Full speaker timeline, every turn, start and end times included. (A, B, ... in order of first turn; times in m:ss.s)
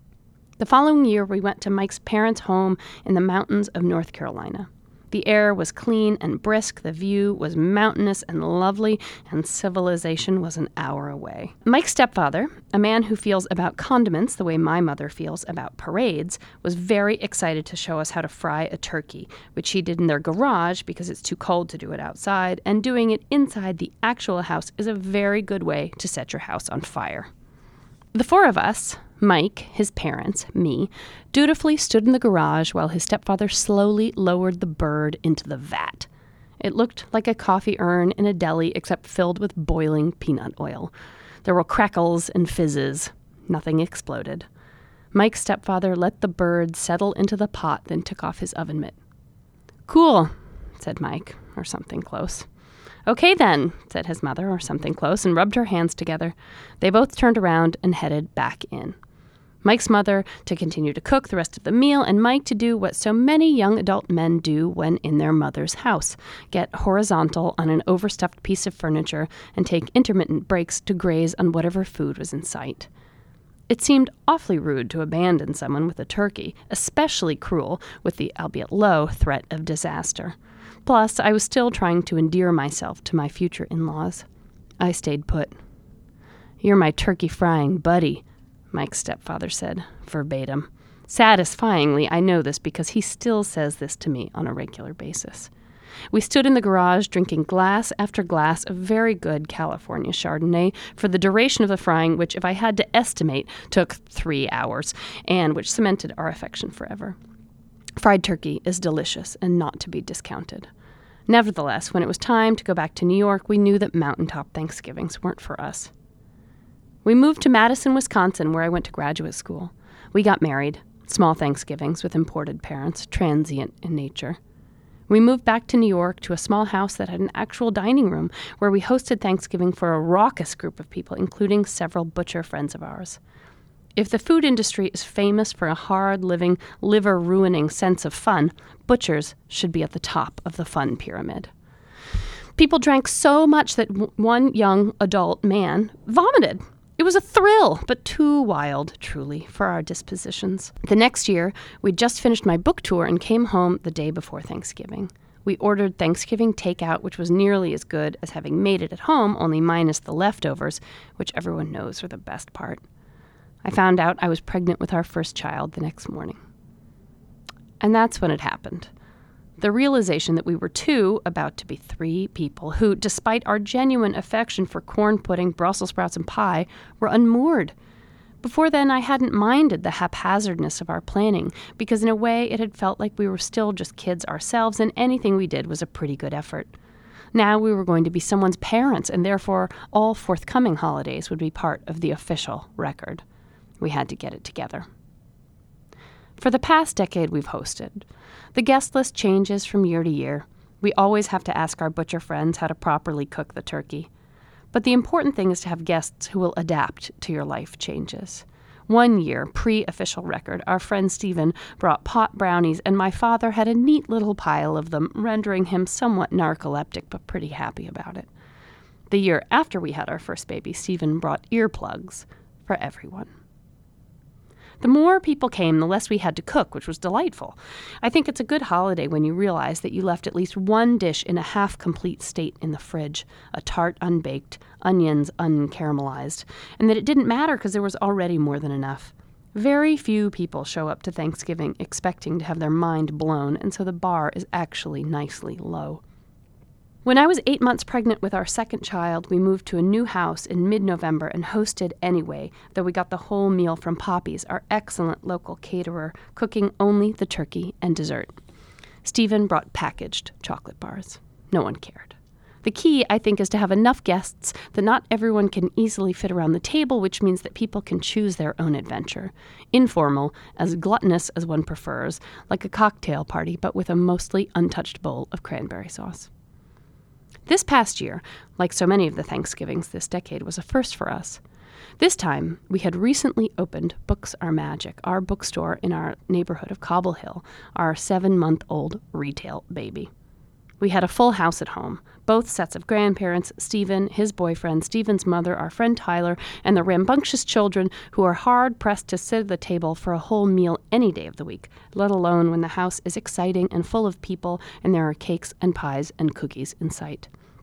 0:00.6-0:27.3 A
0:28.1-0:36.1 A
0:36.6-0:40.9 A
0:41.4-0:44.4 A
0:45.1-0:49.0 A
0:49.9-0:52.4 A
0:53.0-0:59.0 A
0:59.6-1:12.9 A
1:13.7-1:24.2 A
1:24.8-1:25.5 A
1:26.6-1:35.5 A
1:36.1-1:47.2 A
1:48.0-1:50.7 A
1:51.3-1:55.9 A
1:57.0-2:04.4 A
2:05.1-2:13.2 A
2:14.0-2:21.5 A
2:22.6-2:42.8 A
2:43.6-2:46.4 A
2:47.8-2:48.9 A
2:49.6-2:57.7 A
2:58.4-3:06.7 A
3:07.3-3:13.2 A
3:13.8-3:14.8 A
3:16.4-3:24.1 A
3:24.7-3:38.3 A
3:39.1-3:43.3 A
3:44.8-4:06.0 A
4:07.0-4:18.4 A
4:19.0-4:36.3 A
4:37.4-4:41.4 A
4:42.0-4:50.1 A
4:50.8-5:07.3 A